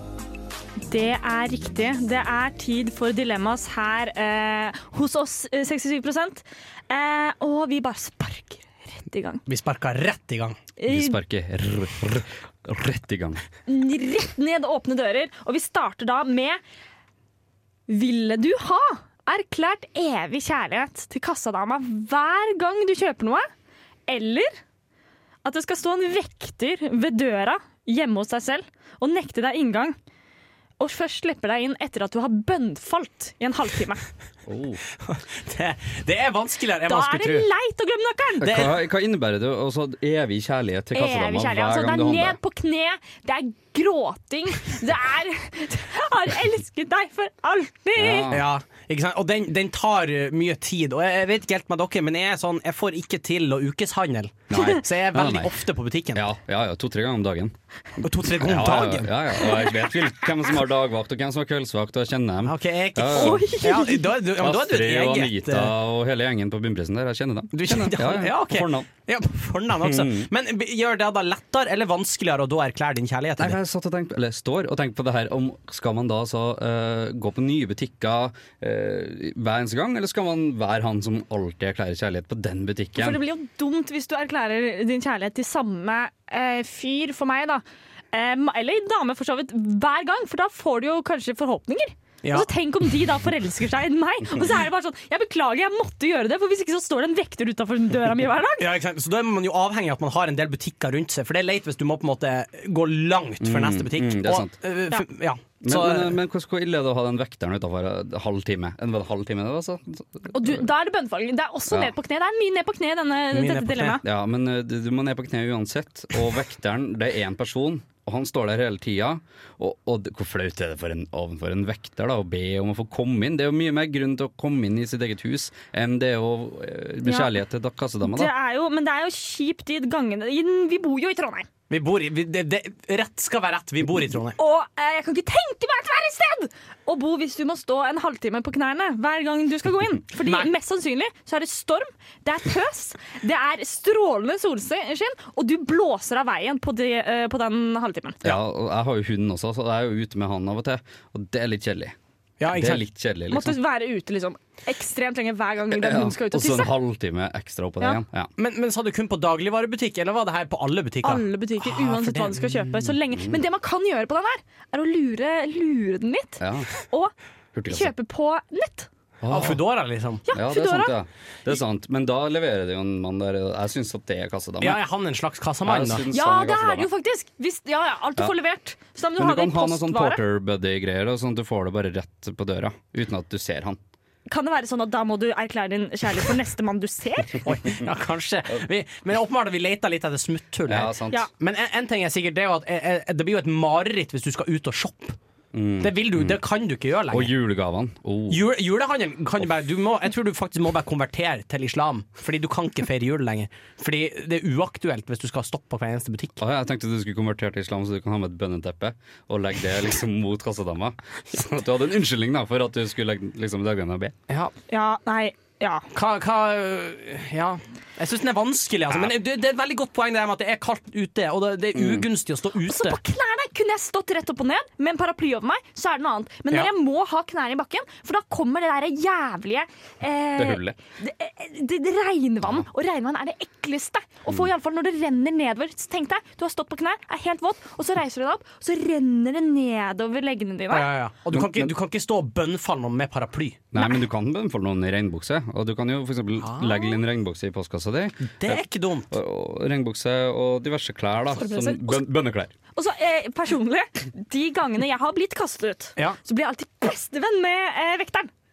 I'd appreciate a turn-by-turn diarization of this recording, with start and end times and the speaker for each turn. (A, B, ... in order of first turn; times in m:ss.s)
0:00.8-0:09.4 A
0:09.5-0:10.6 B
0:10.8-0:11.2 A
0:10.9-0:13.4 C
0:13.7-0:16.6 A
0:17.9-0:23.5 A
0:24.1-0:24.6 A
0:25.4-0:30.0 A
0:30.8-0:34.0 A
0:34.5-0:34.8 C
0:35.0-0:37.5 B
0:36.9-0:38.5 A
0:38.4-0:42.4 C
0:38.4-0:38.8 B
0:40.9-0:48.3 A
0:48.0-0:48.5 C
0:48.3-0:56.2 B
0:54.5-0:55.5 C
0:56.2-1:03.5 C
0:58.0-0:59.1 B
1:02.4-1:05.7 B
1:03.1-1:04.2 A
1:04.4-1:08.9 C
1:07.5-1:13.6 B
1:09.8-1:10.3 C
1:13.4-1:23.2 C
1:23.0-1:38.7 A
1:32.2-1:32.5 B
1:38.6-1:46.2 B
1:43.4-1:44.6 C
1:45.6-1:50.6 C
1:50.3-1:54.0 A
1:53.3-1:54.0 B
1:54.0-2:08.3 C
2:07.0-2:07.3 A
2:08.0-2:11.5 A
2:11.7-2:14.4 B
2:14.4-2:28.2 A
2:20.2-2:20.5 B
2:28.2-2:32.0 C
2:32.4-2:32.8 B
2:32.5-2:33.6 C
2:33.3-2:36.7 A
2:35.7-2:38.3 C
2:38.4-2:42.8 B
2:41.0-2:47.1 A
2:43.1-2:43.4 C
2:46.4-2:46.7 C
2:47.5-2:47.9 C
2:47.7-2:48.9 A
2:49.2-2:49.6 C
2:49.3-2:50.2 B
2:50.3-2:51.0 A
2:50.3-2:54.8 C
2:54.6-2:56.0 B
2:55.6-2:56.9 C
2:56.1-3:00.2 A
2:59.2-3:03.8 C
3:04.3-3:07.4 A
3:07.4-3:15.2 B
3:10.7-3:11.2 C
3:15.5-3:16.4 C
3:15.8-3:17.3 B
3:17.1-3:18.5 C
3:18.3-3:26.4 B
3:26.4-3:34.2 C
3:34.7-3:35.9 A
3:35.9-3:43.0 B
3:41.8-3:42.0 C
3:42.7-4:00.9 A
3:50.4-3:50.8 C
4:00.7-4:03.6 B
4:01.3-4:01.7 C
4:03.7-4:12.5 C
4:06.4-4:06.7 B
4:08.3-4:09.1 B
4:11.3-4:12.1 A
4:12.7-4:18.3 A